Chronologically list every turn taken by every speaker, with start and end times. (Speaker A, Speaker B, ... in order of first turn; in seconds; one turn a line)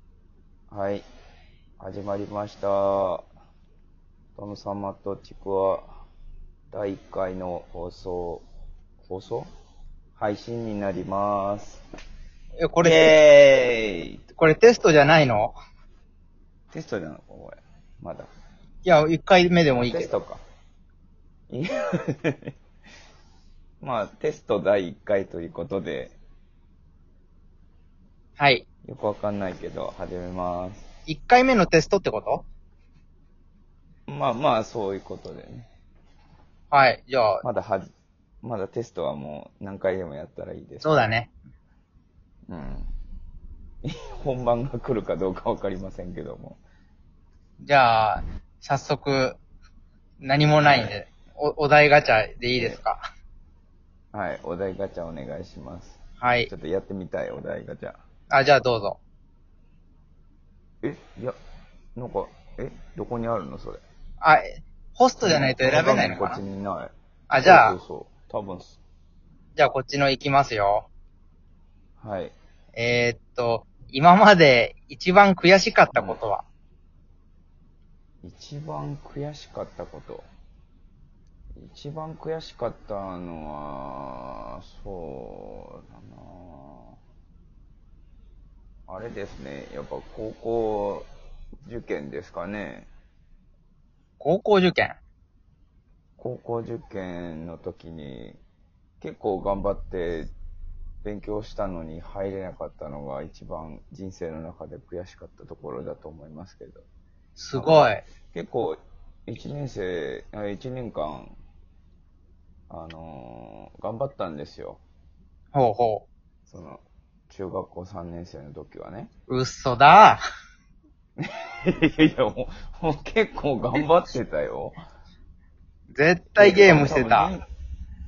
Speaker A: 0.7-1.0
Speaker A: 1.8-3.2
Speaker A: 4.3-5.9
Speaker A: 6.7-8.4
Speaker A: 9.1-9.5
Speaker A: 10.2-11.8
Speaker B: 12.6-13.2
Speaker A: 12.8-14.3
Speaker B: 14.4-15.6
Speaker A: 16.7-18.3
Speaker B: 18.8-20.1
Speaker A: 19.8-20.4
Speaker A: 21.5-22.5
Speaker A: 23.8-26.1
Speaker B: 28.4-28.6
Speaker A: 28.8-30.9
Speaker B: 31.1-32.4
Speaker A: 34.1-35.7
Speaker B: 36.7-37.4
Speaker A: 37.4-37.9
Speaker A: 38.4-41.1
Speaker B: 40.8-41.3
Speaker A: 42.5-42.9
Speaker A: 43.8-46.6
Speaker B: 47.6-49.4
Speaker B: 50.2-53.0
Speaker A: 50.6-51.0
Speaker A: 54.1-58.0
Speaker B: 56.2-56.5
Speaker B: 58.3-59.0
Speaker A: 60.8-61.4
Speaker A: 62.0-63.8
Speaker B: 64.2-66.4
Speaker A: 65.2-68.8
Speaker B: 67.3-67.7
Speaker B: 69.5-70.9
Speaker A: 72.0-72.3
Speaker B: 72.7-76.4
Speaker A: 75.9-76.2
Speaker A: 78.2-80.2
Speaker A: 81.5-87.0
Speaker A: 88.9-91.1
Speaker A: 91.6-92.9
Speaker B: 94.2-95.0
Speaker A: 96.2-98.4
Speaker A: 99.0-100.3
Speaker A: 101.0-106.8
Speaker B: 107.4-108.0
Speaker A: 107.5-111.3
Speaker A: 112.7-114.8
Speaker B: 115.5-116.0
Speaker A: 116.5-119.1
Speaker B: 119.3-120.2
Speaker A: 121.2-124.8
Speaker B: 125.9-127.3
Speaker A: 126.4-127.4